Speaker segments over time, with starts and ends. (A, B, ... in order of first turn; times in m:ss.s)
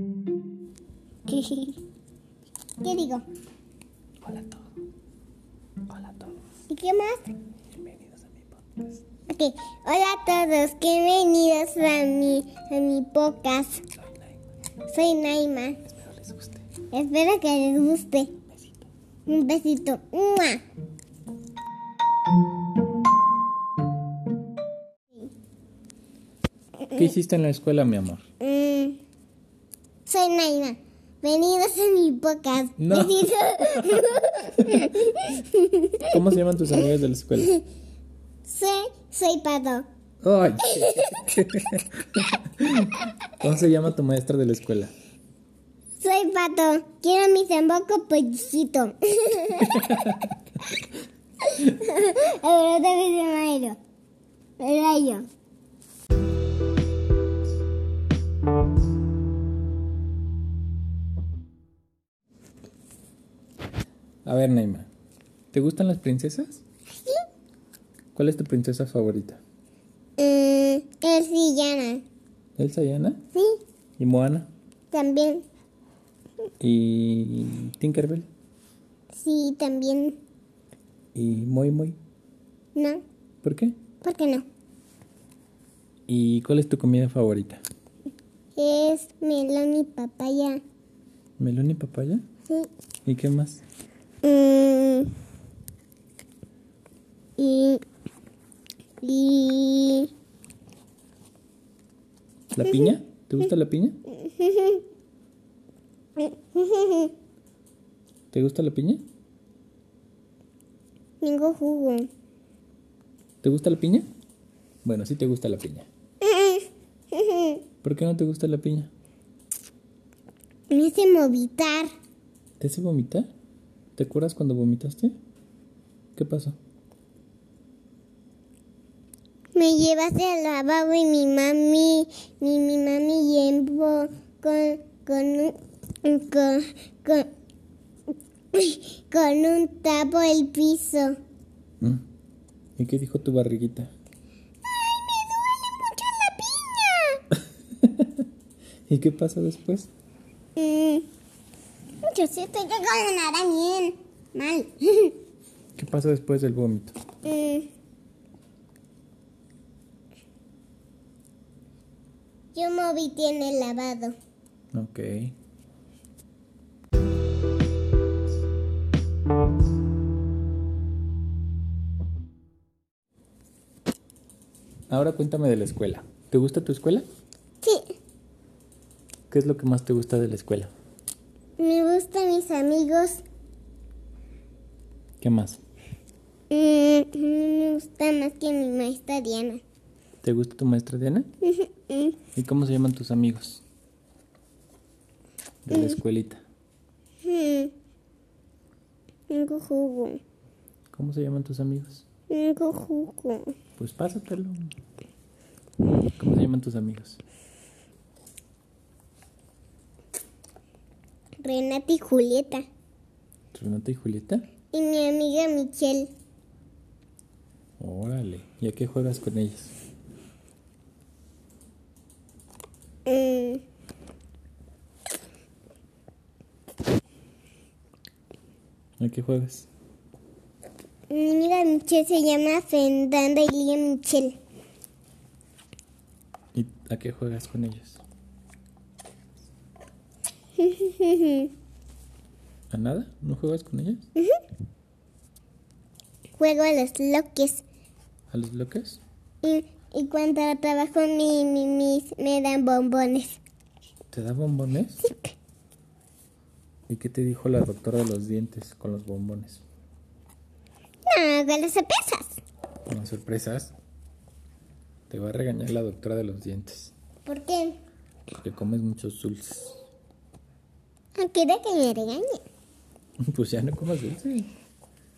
0:01.3-0:01.8 A
0:02.8-0:03.2 A
0:04.2-0:04.6 B
0:05.9-0:06.4 B
0:06.7-0:07.4 A
0:07.7-0:09.0 B
0:09.3-0:13.8 A
0:14.8-0:15.8 A
0:15.9-0:16.7 B
0:16.9-0:18.3 A
0:18.5-0:18.9 B
0:19.3-0:20.6 A
0:26.9-0:28.2 B
0:28.4-0:29.0 A
0:30.1-0:36.1 A
0:32.8-0:33.3 B
0:34.6-0:34.9 B
0:36.0-0:37.6 B
0:38.4-0:39.9 A
0:40.2-0:44.9 B
0:40.6-0:41.1 A
0:46.0-0:50.2 A
0:49.8-0:50.2 B
0:51.4-0:53.8 A
0:54.6-0:55.3 A
1:04.2-1:04.9 B
1:05.5-1:06.6 B
1:08.2-1:09.4 B
1:10.2-1:12.0 A
1:12.6-1:13.2 B
1:13.3-1:13.6 A
1:14.0-1:14.5 B
1:14.9-1:15.4 A
1:16.6-1:18.3 B
1:19.1-1:20.2 A
1:21.2-1:22.0 B
1:22.8-1:23.0 A
1:23.4-1:23.8 B
1:24.0-1:24.4 A
1:26.1-1:27.6 B
1:28.6-1:30.6 A
1:31.4-1:32.2 B
1:33.0-1:33.6 B
1:34.2-1:35.2 A
1:37.4-1:37.8 A
1:39.0-1:40.1 A
1:42.5-1:44.0 B
1:44.1-1:44.8 A
1:46.2-1:47.1 A
1:48.3-1:49.0 B
1:51.2-1:52.1 A
1:53.4-1:54.1 B
1:54.8-1:55.9 B
1:56.2-1:57.6 A
1:57.8-1:58.9 B
2:00.7-2:01.9 A
2:02.6-2:03.3 B
2:04.0-2:05.2 B
2:06.2-2:06.6 B
2:09.6-2:17.3 A
2:18.5-2:21.2 A
2:22.8-2:23.9 B
2:24.6-2:27.2 A
2:27.8-2:28.3 B
2:28.9-2:29.9 B
2:30.6-2:31.1 A
2:32.0-2:35.2 A
2:35.8-2:37.0 B
2:37.2-2:37.7 A
2:42.5-2:44.2 A
2:44.7-2:45.4 B
2:54.9-2:57.1 B
2:57.6-2:58.0 A
2:59.3-3:00.7 B
3:01.6-3:03.2 A
3:05.2-3:05.6 B
3:06.5-3:09.6 A
3:10.2-3:11.3 B
3:11.4-3:12.2 A
3:12.4-3:13.6 B
3:15.6-3:16.4 B
3:17.2-3:17.7 A
3:19.3-3:20.2 A
3:20.9-3:22.0 B
3:22.3-3:23.5 A
3:23.8-3:24.7 B
3:26.0-3:27.2 B
3:31.4-3:32.7 A
3:33.5-3:34.4 B
3:34.7-3:36.1 A
3:37.8-3:39.8 B
3:43.1-3:43.6 A
3:49.0-3:49.7 B
3:51.1-3:54.4 A
3:56.5-3:58.0 B
4:00.6-4:01.5 A
4:02.7-4:04.1 B
4:06.4-4:07.6 A
4:08.3-4:09.0 B
4:09.4-4:13.4 A
4:14.1-4:15.1 B
4:16.9-4:19.6 B
4:21.1-4:22.4 A
4:22.9-4:23.7 B
4:25.1-4:26.9 B
4:27.2-4:27.8 A
4:28.3-4:29.8 B
4:31.2-4:32.4 A
4:33.2-4:34.5 B